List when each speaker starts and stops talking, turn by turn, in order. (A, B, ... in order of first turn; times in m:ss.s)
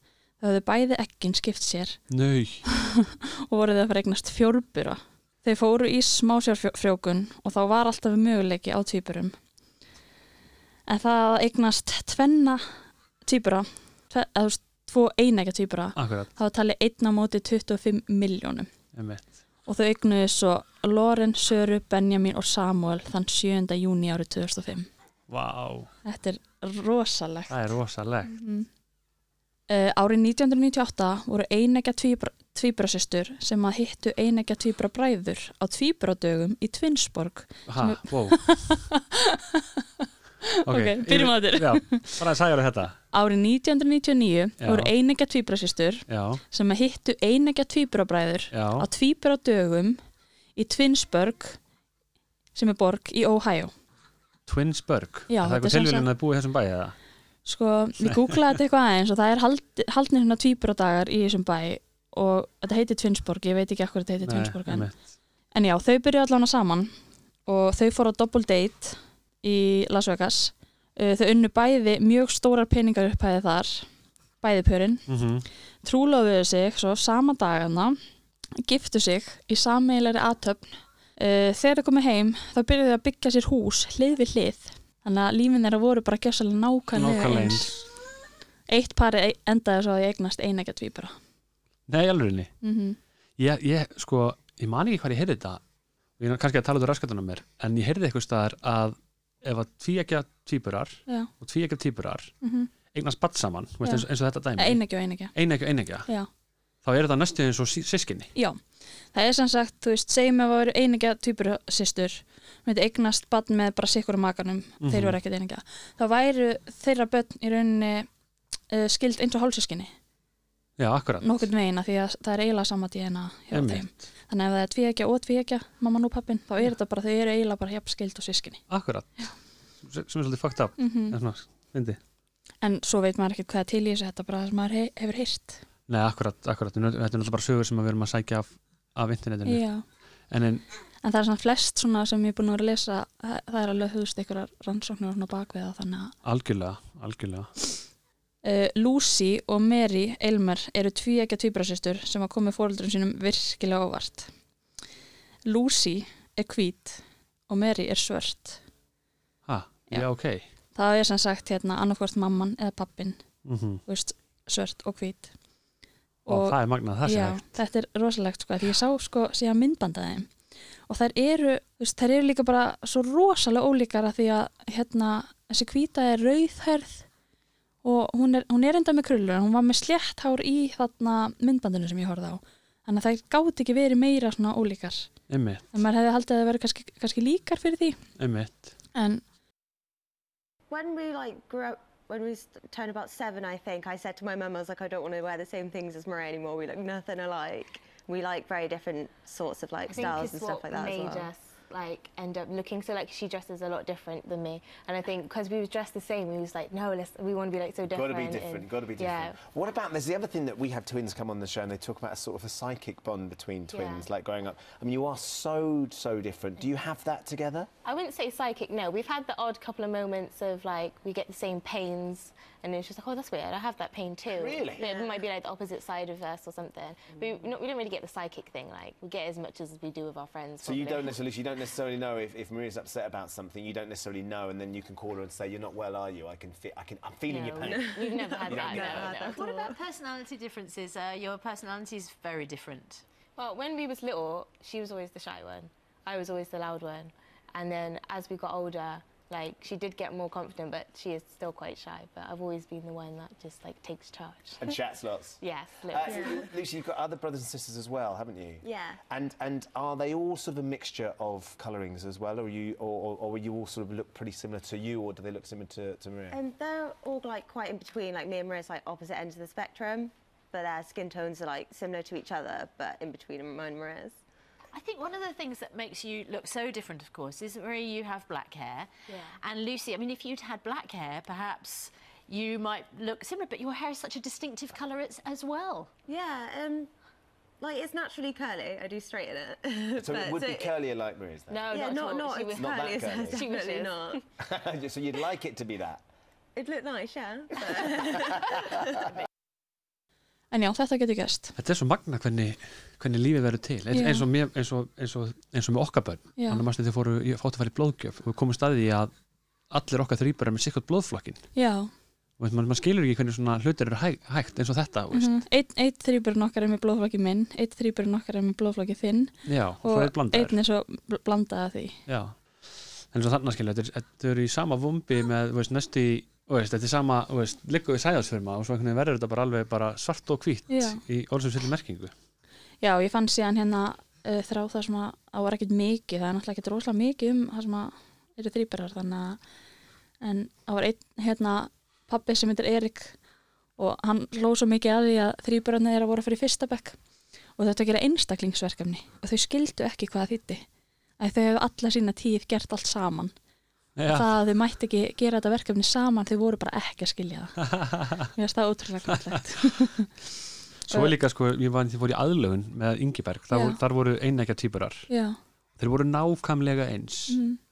0:00.4-0:02.0 A
0:02.1-0:02.6 B
0:02.6-0:09.3 A
0:10.9-0:12.7 A
0:13.2-0:18.7 A
0:16.0-0:16.3 B
0:18.9-0:19.3 B
0:19.7-0:24.9 A
0:25.3-0:25.9 B
0:26.0-0:27.5 A
0:27.5-0:28.3 B
0:28.2-0:28.7 A
0:29.7-0:42.2 A
0:37.7-0:38.4 B
0:40.6-0:43.0 B
0:43.1-0:50.0 A
0:44.6-0:44.9 B
0:46.1-0:46.4 B
0:48.5-0:48.9 B
0:50.6-0:51.6 A
0:52.5-0:53.7 A
0:54.5-0:56.9 B
0:55.3-0:56.1 A
0:57.4-1:04.9 A
0:58.1-0:58.3 B
1:04.2-1:05.0 B
1:05.5-1:06.9 A
1:07.5-1:13.9 A
1:14.4-1:15.1 A
1:15.1-1:15.4 B
1:15.8-1:18.0 A
1:18.6-1:27.8 A
1:26.9-1:27.8 B
1:28.7-1:31.1 A
1:31.9-1:32.5 B
1:32.6-1:33.0 A
1:33.4-1:35.6 B
1:36.2-1:42.3 B
1:42.4-1:42.7 A
1:42.9-1:44.8 B
1:44.6-1:45.3 A
1:45.3-1:46.1 B
1:46.8-1:48.3 B
1:49.1-1:58.1 A
1:54.8-1:55.2 B
1:58.7-1:59.9 A
2:00.8-2:01.3 B
2:01.2-2:08.6 A
2:03.5-2:04.0 B
2:08.7-2:09.2 B
2:09.8-2:12.0 B
2:10.8-2:11.2 A
2:12.6-2:15.6 A
2:15.9-2:19.6 B
2:19.4-2:19.8 A
2:20.3-2:20.6 B
2:21.0-2:26.1 A
2:26.2-2:27.5 B
2:28.4-2:34.3 A
2:35.4-2:38.6 A
2:39.5-2:40.4 B
2:40.7-2:43.2 A
2:43.4-2:43.8 B
2:43.9-2:45.3 A
2:46.2-2:50.3 A
2:46.3-2:47.4 B
2:50.9-2:57.0 A
2:57.8-3:05.1 A
3:05.3-3:05.6 B
3:05.7-3:08.0 A
3:08.2-3:08.7 B
3:08.9-3:09.2 A
3:10.7-3:21.3 C
3:19.9-3:29.4 D
3:27.9-3:37.7 E
3:33.7-3:34.1 D
3:37.8-3:51.2 D
3:44.3-3:45.0 E
3:44.8-3:45.2 C
3:50.6-3:59.5 E
3:57.3-3:59.6 D
3:57.5-3:59.8 C
3:59.3-4:03.0 F
4:03.4-4:14.7 D
4:14.6-4:26.4 E
4:15.4-4:16.5 D
4:16.0-4:16.5 C
4:18.6-4:19.0 C
4:26.3-4:34.2 C
4:34.7-4:45.9 F
4:46.1-4:46.9 C
4:47.6-4:50.7 C
4:50.0-4:51.6 E
4:51.5-4:54.2 D
4:51.7-4:54.2 C
4:52.6-4:53.4 E
4:54.4-4:56.0 E
4:56.6-4:58.7 C
5:00.5-5:01.5 A
5:01.6-5:09.1 B
5:03.9-5:04.2 A
5:06.4-5:06.6 A
5:09.7-5:11.4 B
5:11.5-5:11.9 A
5:12.4-5:15.3 B
5:15.1-5:22.0 A
5:19.4-5:20.6 B
5:22.1-5:22.4 B
5:23.1-5:32.1 B
5:30.7-5:31.0 A
5:32.8-5:39.4 A
5:40.2-5:43.1 A
5:43.8-5:47.0 A
5:47.6-5:50.6 A
5:51.2-5:53.3 A
5:54.0-5:54.3 B
5:54.1-5:57.7 A
5:57.6-5:58.3 B
5:58.3-6:00.1 A
5:59.1-5:59.6 B
6:00.9-6:05.1 B
6:03.5-6:03.8 A
6:05.1-6:05.4 A
6:05.8-6:07.4 B
6:07.3-6:07.6 A